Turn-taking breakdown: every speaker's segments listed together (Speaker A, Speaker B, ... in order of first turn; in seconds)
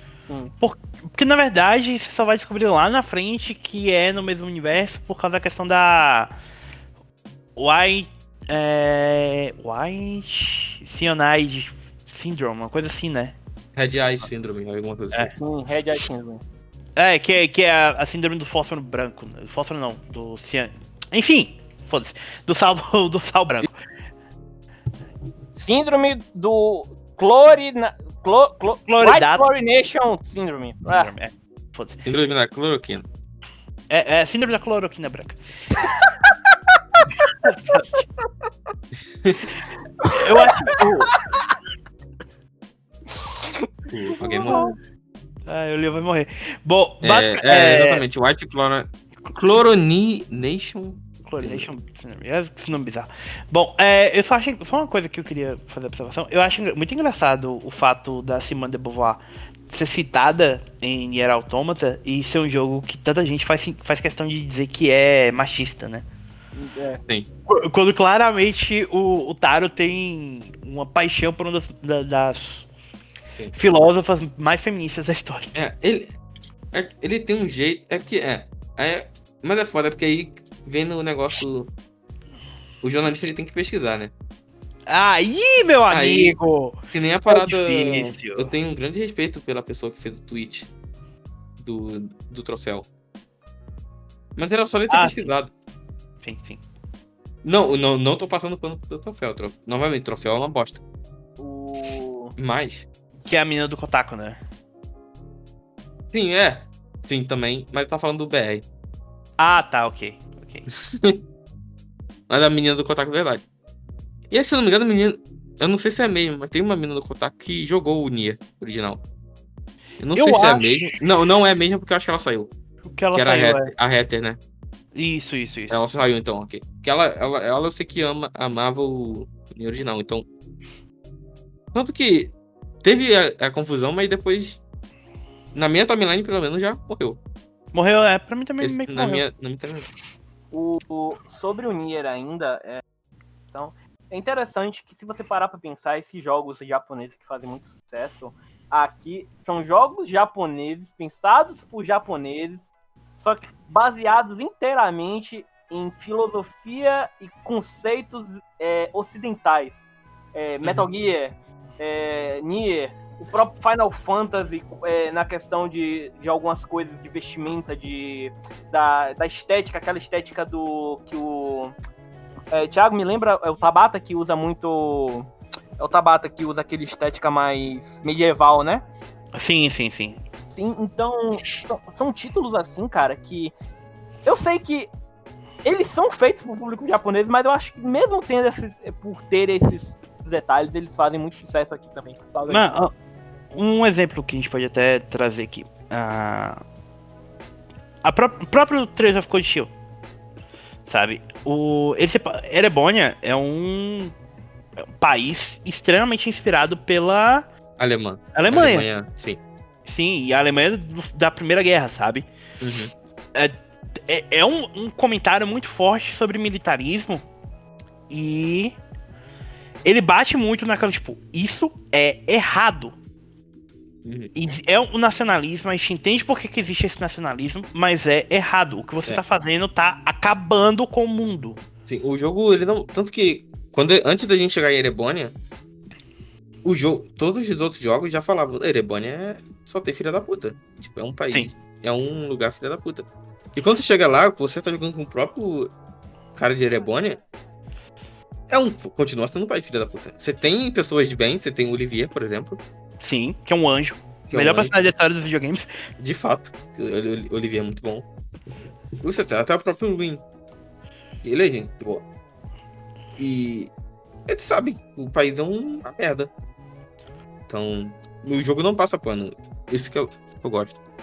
Speaker A: 0.2-0.5, 15.3-16.4, 25.6-31.1, 35.8-37.3, 40.0-40.8, 43.2-43.7, 44.2-44.7, 66.5-67.0, 101.4-102.3, 140.5-142.8, 143.5-159.8, 160.3-171.7, 172.5-175.3, 175.8-178.8, 180.5-183.5, 184.3-184.9, 185.6-192.7
Speaker B: 0.6-6.3, 7.6-13.3, 17.0-23.7, 28.9-29.5, 30.9-32.0, 33.9-35.4, 37.4-38.0, 40.1-41.2, 45.5-48.0, 51.3-66.0, 67.5-72.7, 73.5-75.5, 84.9-88.5, 94.9-95.3, 96.2-96.6, 103.2-104.4, 109.4-110.7, 120.2-121.0, 122.9-123.7, 124.9-125.8, 137.7-139.2, 179.3-180.2, 192.5-192.9, 193.5-196.6, 198.0-199.7, 200.9-204.1, 205.0-207.5, 208.3-208.9, 209.8-212.3, 214.1-217.2, 218.1-218.8, 219.8-222.9, 224.3-231.6, 253.0-255.7
Speaker C: 13.8-15.3, 32.1-33.1, 39.2-39.5, 43.9-44.7, 47.0-51.7, 73.4-73.9, 75.5-76.1, 76.7-81.7, 82.8-84.1, 85.9-86.4, 86.9-90.7, 91.6-92.9, 94.4-95.5, 97.4-100.8, 102.4-102.9, 106.1-108.7, 110.8-111.2, 112.3-113.4, 114.3-119.0, 120.0-122.5, 123.1-124.4, 125.7-130.3, 131.7-134.6, 135.6-137.2, 138.6-139.9, 207.8-209.4, 212.6-212.9, 224.0-224.3, 231.9-235.3, 236.6-245.7, 246.4-247.2, 248.5-252.6, 254.3-254.7, 256.0-258.1, 259.0-260.2, 261.2-262.1, 263.2-263.7, 264.3-266.3, 267.5-270.8